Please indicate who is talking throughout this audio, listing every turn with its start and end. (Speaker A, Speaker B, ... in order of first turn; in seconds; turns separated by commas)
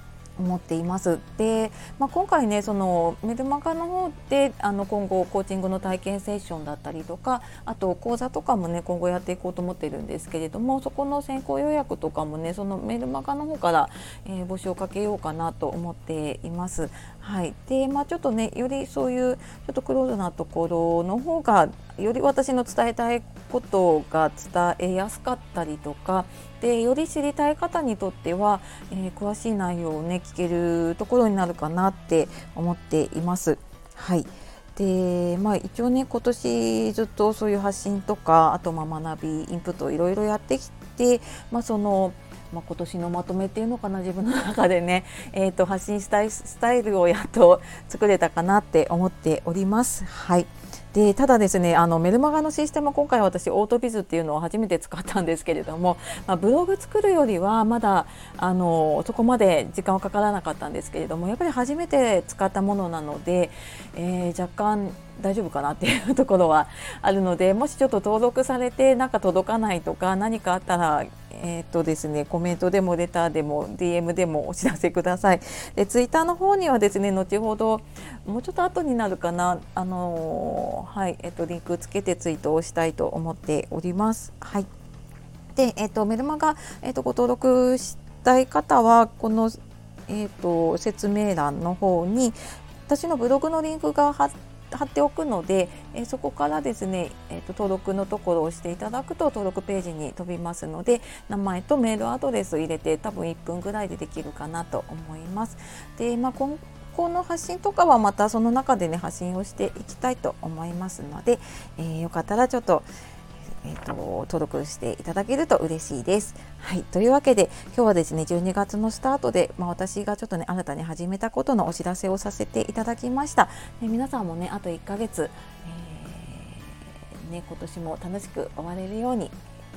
Speaker A: 0.4-84.7, Speaker A: 85.5-89.6, Speaker A: 90.1-112.9, Speaker A: 113.6-129.4